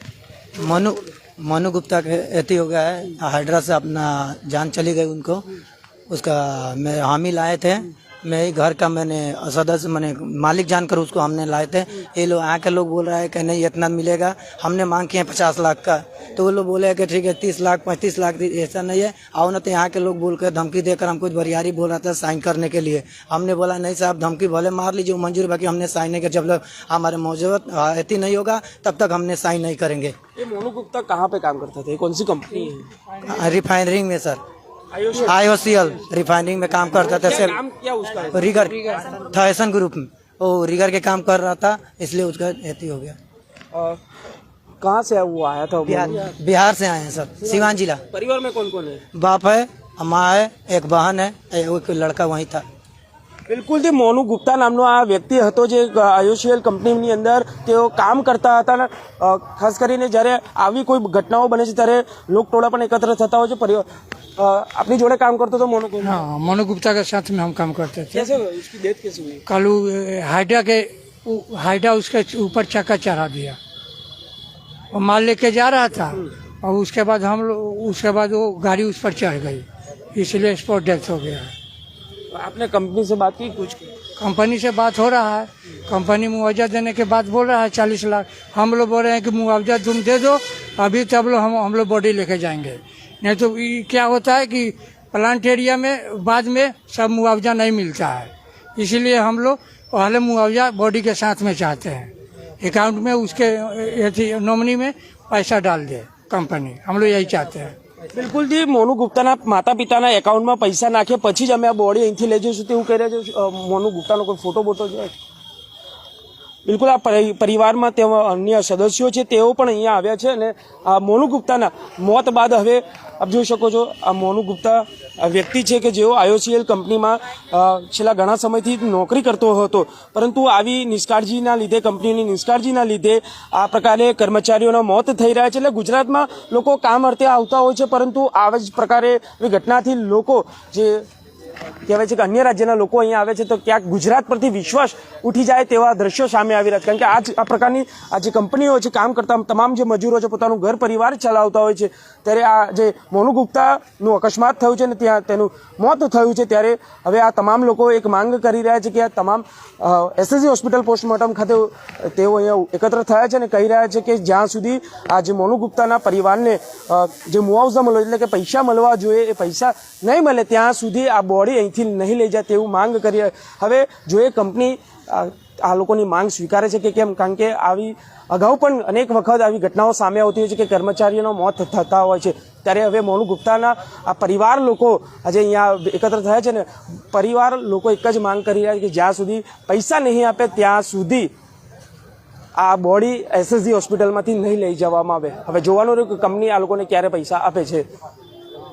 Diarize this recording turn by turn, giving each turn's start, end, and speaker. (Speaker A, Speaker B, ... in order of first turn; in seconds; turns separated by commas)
Speaker A: 0.6-5.5, Speaker A: 6.1-30.1, Speaker B: 30.4-32.9, Speaker A: 33.2-34.4, Speaker B: 34.9-35.3, Speaker A: 35.2-37.6, Speaker B: 37.1-38.6, Speaker A: 38.3-43.2, Speaker B: 43.7-44.0, Speaker B: 44.8-46.3, Speaker A: 45.9-48.0, Speaker B: 47.4-49.0, Speaker A: 49.1-52.6, Speaker B: 53.5-66.2, Speaker C: 66.0-68.3, Speaker B: 68.1-69.5, Speaker C: 69.5-73.6, Speaker C: 74.9-81.5, Speaker B: 82.3-83.9, Speaker C: 84.2-107.7, Speaker B: 108.1-115.1, Speaker B: 116.7-141.1, Speaker B: 141.8-191.3, Speaker B: 192.6-197.9